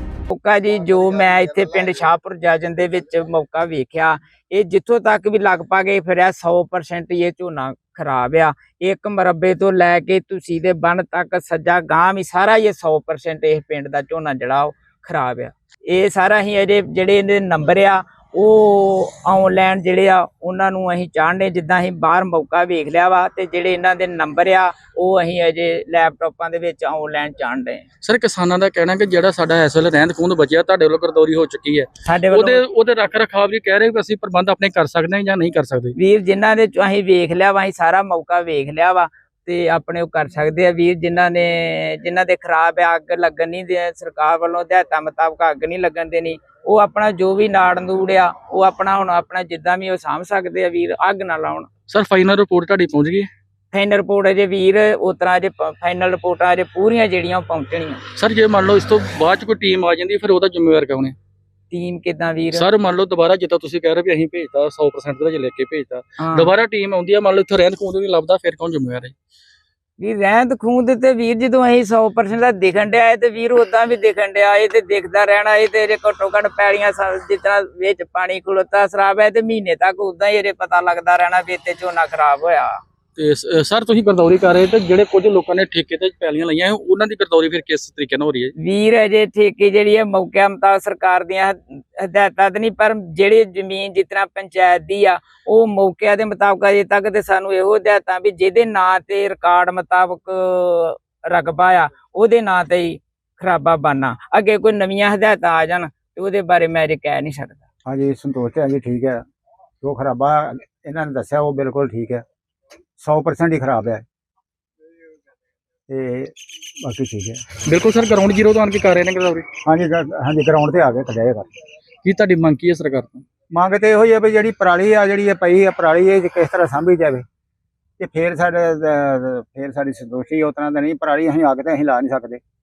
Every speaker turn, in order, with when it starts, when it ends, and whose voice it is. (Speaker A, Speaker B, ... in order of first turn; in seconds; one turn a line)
Speaker A: 0.3-27.8
Speaker B: 28.0-35.9
Speaker A: 32.0-32.6
Speaker A: 36.0-51.7
Speaker B: 51.9-53.3
Speaker A: 53.7-58.0
Speaker B: 58.2-61.1
Speaker A: 61.7-62.6
Speaker B: 62.5-69.1
Speaker A: 66.2-66.5
Speaker A: 70.0-82.8
Speaker B: 83.2-88.5
Speaker A: 88.6-107.6
Speaker C: 107.8-109.2
Speaker C: 109.8-112.2
Speaker C: 113.0-114.0
Speaker C: 115.9-116.3
Speaker C: 116.8-117.4
Speaker B: 117.6-119.5
Speaker C: 119.6-121.4
Speaker B: 122.0-123.2
Speaker C: 123.5-127.2
Speaker C: 128.0-132.4